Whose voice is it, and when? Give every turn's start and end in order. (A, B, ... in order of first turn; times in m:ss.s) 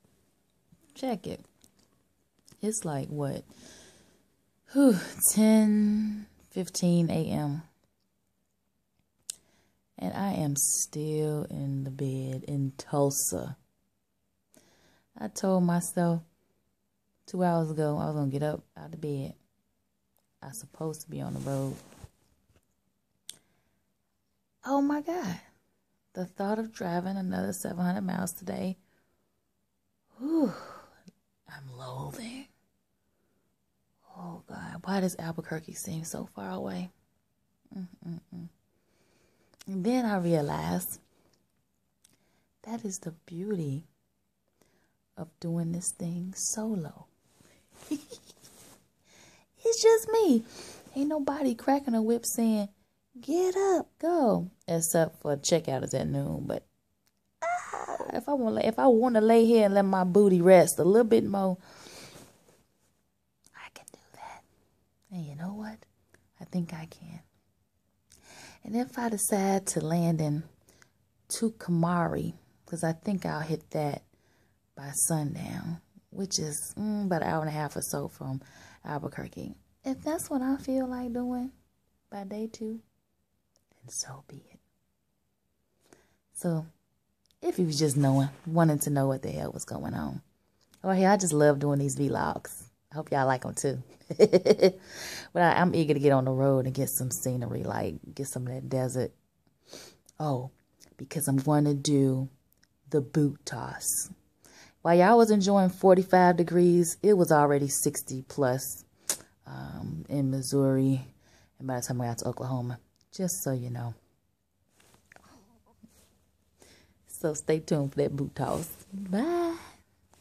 0:00.9-0:01.4 A
0:02.6-0:03.5 A
0:04.7-0:07.6 A
0:10.0-0:13.6 A
0:15.2-0:16.2 A
0:17.2-0:19.4 A
0:20.4-0:21.8 A
0:24.6-0:25.4 A
0:26.1-0:28.8 A
0:30.2-0:30.9 A
0:31.5-0:32.5 A
0:34.1-0:36.9 A
0:37.7-0:38.5 A
0:39.7-0:41.0 A
0:42.6-0:43.9 A
0:45.2-0:47.1 A
0:47.9-0:48.2 A
0:49.6-0:52.7 A
0:53.2-0:56.6 A
0:57.4-1:01.6 A
1:03.6-1:04.4 A
1:05.1-1:07.2 A
1:08.6-1:10.5 A
1:11.3-1:14.0 A
1:14.8-1:21.5 A
1:22.1-1:22.8 A
1:23.8-1:24.6 A
1:26.3-1:26.7 A
1:27.4-1:30.2 A
1:30.8-1:34.8 A
1:35.3-1:39.1 A
1:40.2-1:42.3 A
1:42.9-1:44.1 A
1:44.8-1:48.9 A
1:49.4-1:53.9 A
1:57.1-1:59.8 A